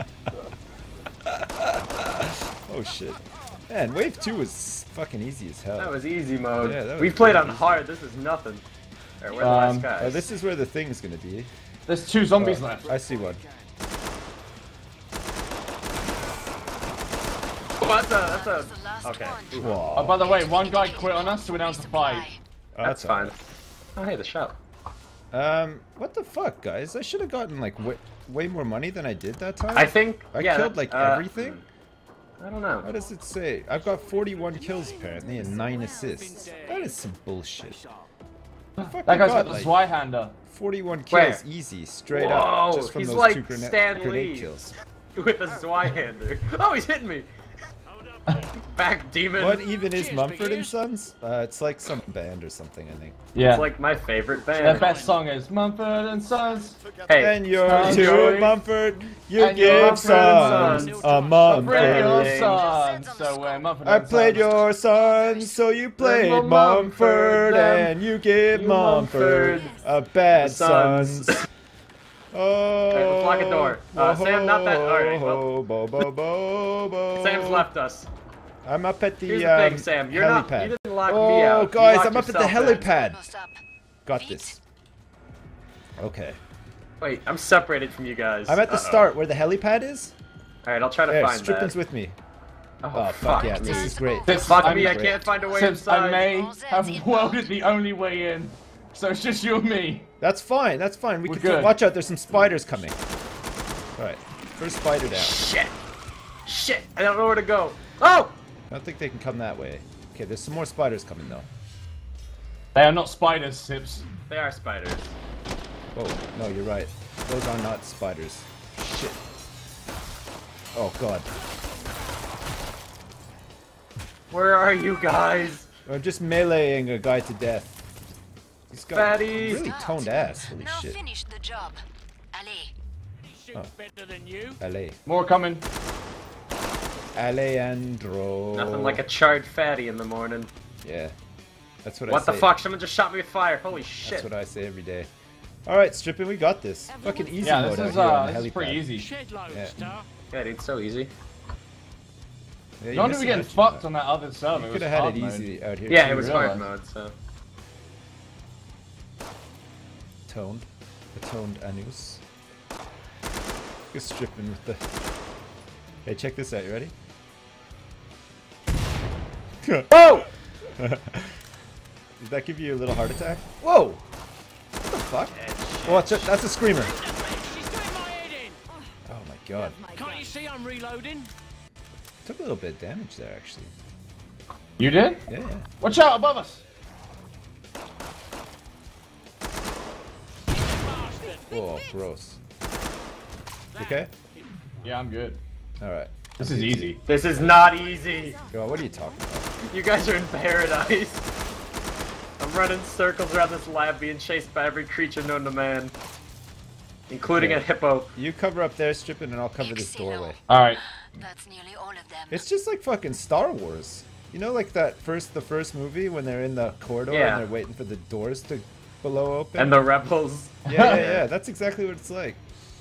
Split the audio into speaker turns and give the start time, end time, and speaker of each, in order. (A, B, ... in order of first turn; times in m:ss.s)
0:01.2-0:06.0 A
0:05.8-0:08.6 B
0:06.6-0:07.8 A
0:09.2-0:10.2 B
0:09.4-0:09.9 C
0:10.0-0:11.5 A
0:11.9-0:12.9 C
0:12.4-0:13.4 A
0:12.8-0:13.6 D
0:17.8-0:19.8 B
0:18.1-0:22.4 E
0:19.5-0:20.2 A
0:19.9-0:22.2 C
0:22.7-0:23.3 A
0:22.8-0:23.4 B
0:24.0-0:24.6 B
0:25.3-0:31.6 A
0:29.7-0:31.6 B
0:32.4-0:32.9 B
0:32.8-0:37.8 A
0:33.7-0:37.0 D
0:37.6-0:38.0 D
0:38.8-0:40.3 C
0:38.8-0:39.7 A
0:40.5-0:44.7 A
0:41.1-0:41.4 B
0:42.1-0:44.5 B
0:45.1-0:47.3 B
0:47.9-0:48.5 D
0:48.7-0:49.6 B
0:49.4-0:53.2 A
0:49.6-0:50.8 D
0:53.3-0:53.7 C
0:53.4-0:54.9 B
0:54.6-0:55.2 D
0:54.6-0:56.8 C
0:57.1-0:58.5 B
0:57.2-1:02.4 A
0:57.6-0:58.6 C
0:59.4-1:00.8 C
0:59.6-1:02.7 B
1:00.4-1:02.2 D
1:01.4-1:04.6 C
1:02.2-1:05.6 E
1:03.8-1:11.4 A
1:06.0-1:07.9 B
1:08.5-1:09.8 B
1:09.5-1:09.8 D
1:10.3-1:11.5 B
1:12.3-1:17.7 A
1:12.9-1:15.5 B
1:17.2-1:18.1 B
1:18.6-1:23.2 A
1:19.2-1:22.9 B
1:22.7-1:24.6 E
1:24.0-1:24.6 A
1:26.0-1:26.4 A
1:27.0-1:29.1 B
1:28.5-1:30.1 A
1:30.6-1:31.8 B
1:31.1-1:32.2 A
1:32.8-1:36.3 B
1:32.9-1:35.2 A
1:33.2-1:37.6 E
1:34.2-1:40.1 C
1:40.2-1:43.0 A
1:41.2-1:41.8 C
1:44.0-1:45.4 A
1:45.1-1:45.7 B
1:46.4-1:48.3 B
1:48.7-1:51.4 A
1:52.7-1:54.0 C
1:54.3-1:55.1 B
1:55.9-1:59.2 A
2:00.7-2:01.3 A
2:04.3-2:05.6 B
2:05.8-2:07.8 A
2:08.7-2:11.0 A
2:08.9-2:09.7 B
2:09.4-2:12.7 E
2:13.2-2:14.6 D
2:14.6-2:15.0 A
2:15.0-2:15.6 C
2:17.1-2:19.0 A
2:18.5-2:20.5 B
2:20.8-2:21.1 A
2:21.8-2:22.5 A
2:22.1-2:24.3 B
2:24.0-2:25.1 A
2:25.6-2:29.9 A
2:26.9-2:27.9 D
2:27.4-2:29.1 C
2:28.9-2:30.0 D
2:30.3-2:31.1 B
2:32.8-2:33.8 A
2:32.9-2:36.7 C
2:34.5-2:36.5 A
2:35.9-2:37.1 B
2:40.3-2:42.2 A
2:43.9-2:44.8 A
2:46.0-2:46.9 A
2:49.6-2:51.4 A
2:49.9-2:50.3 B
2:52.2-2:54.0 A
2:54.8-2:55.3 A
2:55.3-2:56.3 B
2:55.8-2:56.9 A
2:56.8-2:58.8 D
2:59.0-2:59.8 A
2:59.5-3:01.3 D
3:02.2-3:03.7 A
3:04.8-3:05.3 C
3:05.3-3:05.7 A
3:05.8-3:06.6 C
3:10.6-3:11.7 D
3:11.5-3:12.4 A
3:13.8-3:14.1 A
3:14.8-3:15.4 C
3:15.8-3:17.7 A
3:16.4-3:17.0 C
3:17.0-3:18.4 B
3:17.9-3:18.4 D
3:18.5-3:19.5 A
3:19.6-3:21.2 B
3:22.4-3:25.9 B
3:27.1-3:28.1 B
3:27.3-3:27.6 A
3:28.1-3:30.4 A
3:29.6-3:32.4 E
3:30.5-3:30.8 C
3:32.3-3:39.8 A
3:37.1-3:37.4 B
3:39.6-3:41.0 B
3:40.6-3:42.4 A
3:40.7-3:41.2 C